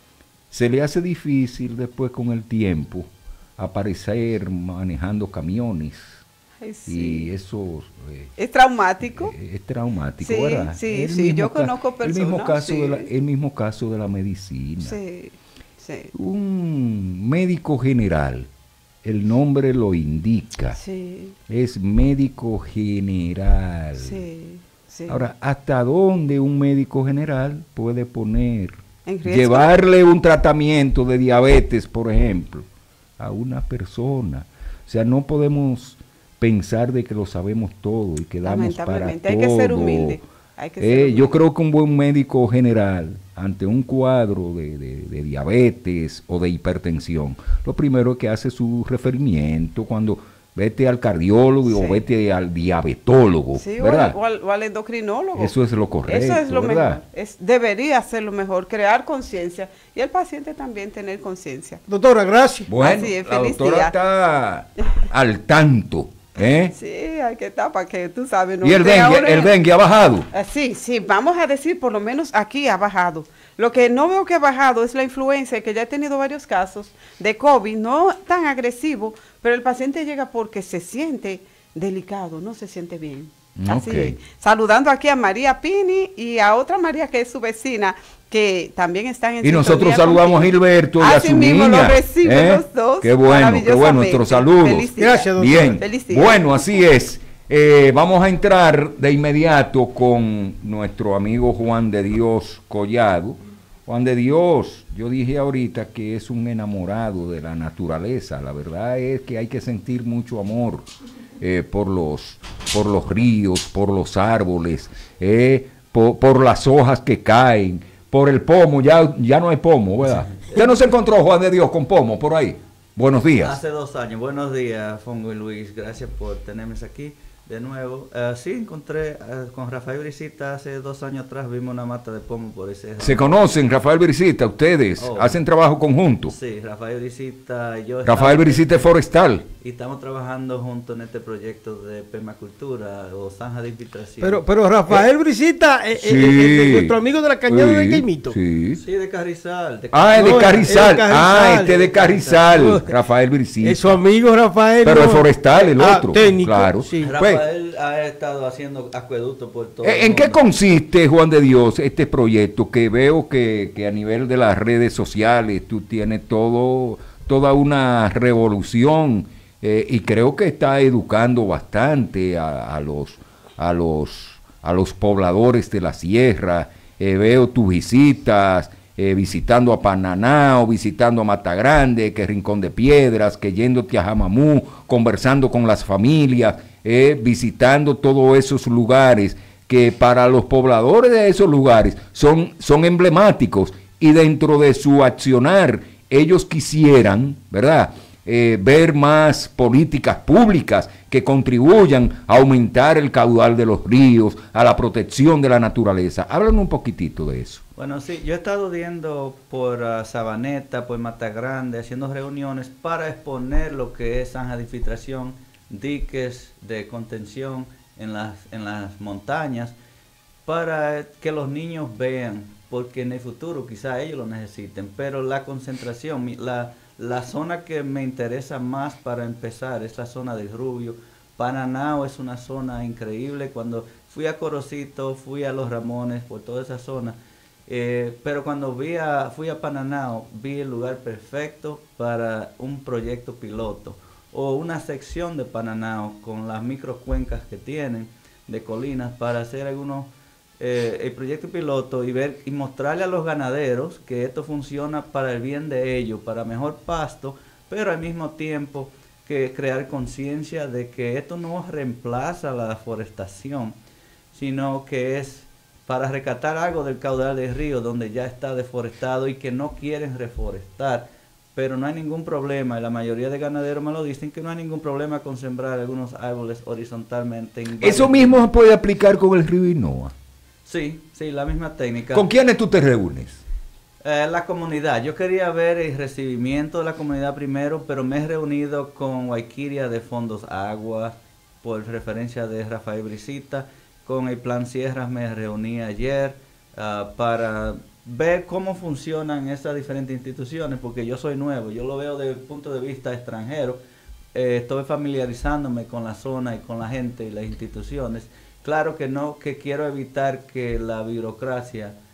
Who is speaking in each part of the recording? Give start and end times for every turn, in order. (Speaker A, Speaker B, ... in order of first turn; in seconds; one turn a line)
Speaker A: 0.5-6.2
Speaker B: 6.6-7.3
Speaker A: 6.9-8.3
Speaker B: 8.4-9.3
Speaker A: 9.0-15.0
Speaker B: 10.2-13.1
Speaker B: 14.8-16.1
Speaker A: 16.1-18.5
Speaker A: 19.0-20.8
Speaker B: 20.8-21.4
Speaker A: 21.5-24.3
Speaker B: 24.0-25.3
Speaker A: 25.1-32.7
Speaker B: 29.1-29.7
Speaker A: 33.2-40.2
Speaker B: 38.4-41.4
Speaker A: 40.8-54.2
Speaker B: 51.6-52.1
Speaker B: 53.5-61.8
Speaker A: 55.4-57.0
Speaker C: 61.9-62.7
Speaker A: 62.7-66.7
Speaker B: 62.8-63.9
Speaker B: 66.5-69.5
Speaker A: 68.6-70.3
Speaker B: 70.3-96.6
Speaker A: 83.6-84.2
Speaker A: 89.4-123.6
Speaker C: 95.0-95.8
Speaker D: 123.3-133.5
Speaker A: 133.0-136.3
Speaker D: 135.0-135.4
Speaker D: 136.3-138.9
Speaker A: 138.1-139.5
Speaker D: 139.6-144.5
Speaker C: 144.2-148.4
Speaker A: 146.0-147.0
Speaker A: 147.5-148.8
Speaker D: 148.8-151.0
Speaker A: 149.9-154.0
Speaker C: 150.2-151.9
Speaker D: 151.5-152.6
Speaker C: 152.4-152.9
Speaker C: 153.6-157.2
Speaker A: 154.8-157.5
Speaker D: 157.0-160.4
Speaker A: 159.8-207.6
Speaker D: 207.8-219.8
Speaker D: 220.5-237.2
Speaker D: 237.7-263.8
Speaker D: 264.3-278.5
Speaker A: 277.8-280.1
Speaker D: 280.7-282.3
Speaker A: 282.1-283.4
Speaker D: 284.0-303.8
Speaker D: 304.3-311.9